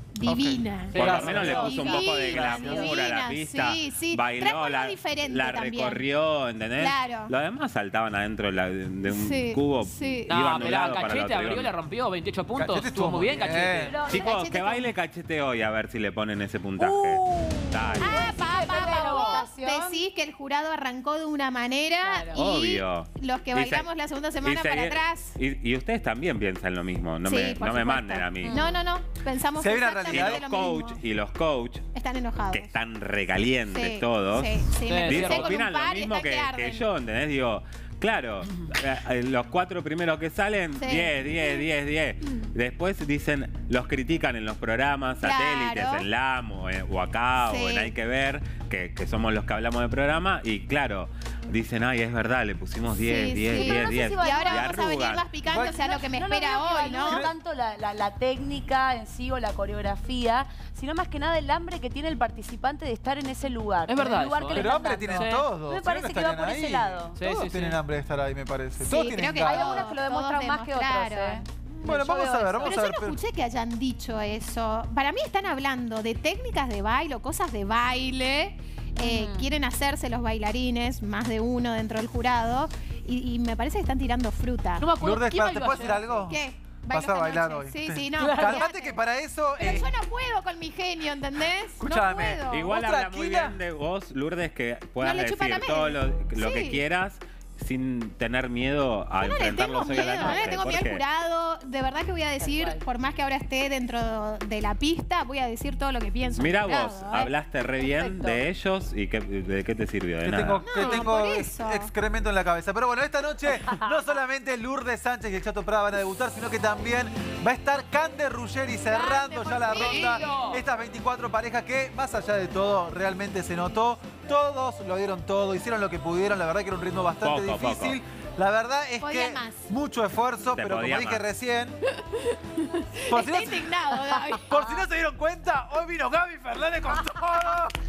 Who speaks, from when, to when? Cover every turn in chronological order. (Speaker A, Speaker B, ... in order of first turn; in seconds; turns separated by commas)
Speaker A: 0.1-6.0, Speaker B: 0.2-1.8, Speaker C: 0.9-1.6, Speaker D: 1.0-11.7, Speaker E: 1.3-3.0, Speaker B: 2.3-2.8, Speaker A: 6.8-7.3, Speaker A: 9.0-10.4, Speaker C: 10.3-13.9, Speaker B: 12.5-13.9, Speaker E: 13.8-14.3, Speaker D: 14.0-18.3, Speaker A: 14.1-14.9, Speaker E: 16.8-20.0, Speaker A: 18.0-25.4, Speaker C: 19.0-19.4, Speaker E: 22.0-22.4, Speaker D: 22.3-23.9, Speaker D: 24.4-28.6, Speaker A: 27.2-31.0, Speaker E: 28.4-28.8, Speaker B: 29.6-30.4, Speaker D: 30.1-31.9, Speaker A: 31.9-32.7, Speaker D: 32.5-55.3, Speaker A: 33.7-36.9, Speaker C: 34.9-35.5, Speaker A: 40.8-41.3, Speaker A: 45.2-46.1, Speaker A: 47.4-47.9, Speaker A: 52.9-57.3, Speaker E: 53.5-54.7, Speaker B: 55.5-55.9, Speaker E: 55.6-67.2, Speaker B: 57.0-57.3, Speaker C: 63.9-65.5, Speaker B: 64.5-69.8, Speaker C: 67.2-67.8, Speaker A: 68.8-71.4, Speaker E: 69.4-72.8, Speaker B: 71.7-73.2, Speaker A: 72.6-84.8, Speaker E: 79.0-79.5, Speaker C: 84.8-86.2, Speaker B: 85.0-86.4, Speaker A: 86.2-89.0, Speaker B: 86.9-89.9, Speaker C: 88.2-88.7, Speaker A: 89.6-92.7, Speaker B: 91.8-93.6, Speaker D: 92.5-101.0, Speaker A: 95.0-96.8, Speaker A: 99.2-107.3, Speaker E: 100.2-100.5, Speaker E: 102.4-102.8, Speaker D: 106.3-110.8, Speaker E: 107.8-108.4, Speaker B: 110.2-131.8, Speaker A: 110.6-111.9, Speaker E: 118.9-120.3, Speaker A: 119.6-120.4, Speaker C: 119.7-120.6, Speaker D: 127.2-128.0, Speaker A: 129.0-129.7, Speaker D: 130.5-131.2, Speaker A: 132.8-134.6, Speaker B: 133.1-133.8, Speaker B: 134.4-137.8